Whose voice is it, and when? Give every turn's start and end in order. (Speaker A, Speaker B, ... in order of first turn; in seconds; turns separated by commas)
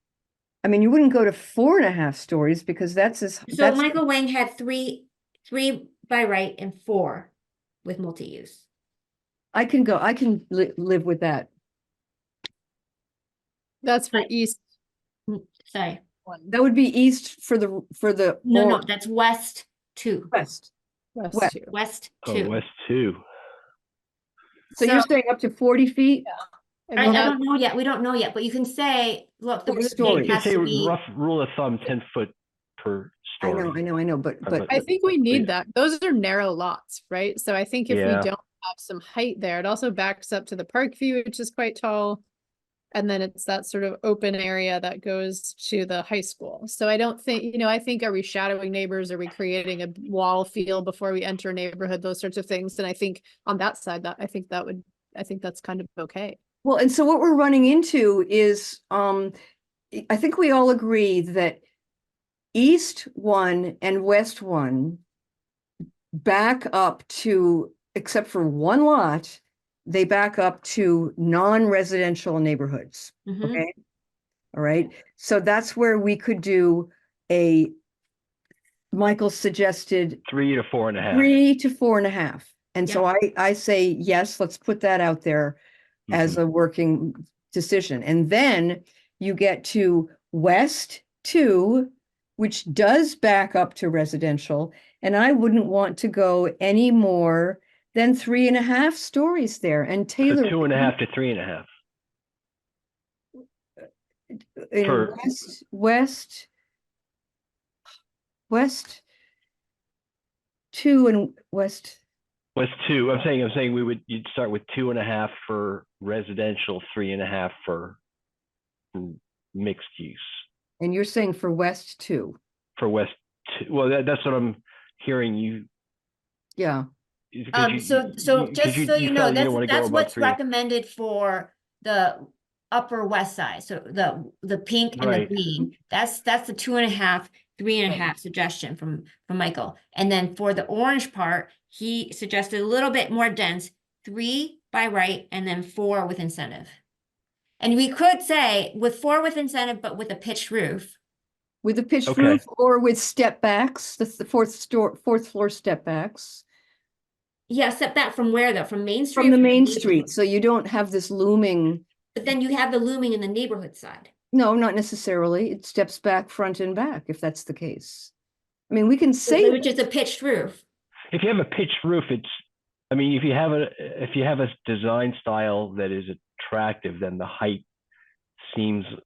Speaker A: 0.6-4.0, Speaker B: 3.5-7.3, Speaker B: 7.8-8.6, Speaker A: 9.5-11.5, Speaker C: 13.8-14.6, Speaker B: 15.3-16.0, Speaker A: 16.5-18.8, Speaker B: 18.4-20.3, Speaker A: 20.3-20.7, Speaker C: 21.2-21.8, Speaker B: 21.7-22.6, Speaker D: 22.2-23.2, Speaker A: 24.8-26.3, Speaker B: 24.8-25.1, Speaker C: 26.9-27.4, Speaker B: 27.0-30.9, Speaker A: 27.0-27.3, Speaker A: 29.7-30.4, Speaker D: 30.1-33.8, Speaker A: 33.4-34.8, Speaker D: 34.5-34.8, Speaker C: 34.7-42.2, Speaker D: 37.9-38.3, Speaker C: 42.9-56.4, Speaker A: 56.6-59.3, Speaker A: 59.9-61.6, Speaker A: 62.5-65.0, Speaker A: 66.1-73.7, Speaker B: 73.3-73.6, Speaker A: 74.5-77.7, Speaker A: 78.9-80.2, Speaker D: 80.3-81.3, Speaker A: 81.1-85.6, Speaker D: 86.1-86.4, Speaker A: 86.1-100.9, Speaker D: 100.3-101.7, Speaker A: 104.6-106.5, Speaker D: 104.8-105.2, Speaker A: 108.5-109.0, Speaker A: 110.7-112.0, Speaker D: 112.5-118.0, Speaker D: 118.9-120.2, Speaker A: 120.8-122.4, Speaker D: 122.8-125.7, Speaker A: 126.6-126.8, Speaker D: 127.3-130.4, Speaker B: 127.5-146.8, Speaker D: 135.0-135.3, Speaker B: 147.6-150.9, Speaker A: 151.6-156.4, Speaker D: 152.1-152.4, Speaker B: 157.5-160.1, Speaker A: 159.2-161.8, Speaker B: 162.2-164.1, Speaker A: 164.3-168.1, Speaker A: 168.7-169.9, Speaker B: 169.3-170.6, Speaker D: 171.1-172.3, Speaker D: 172.9-177.6, Speaker D: 178.5-178.9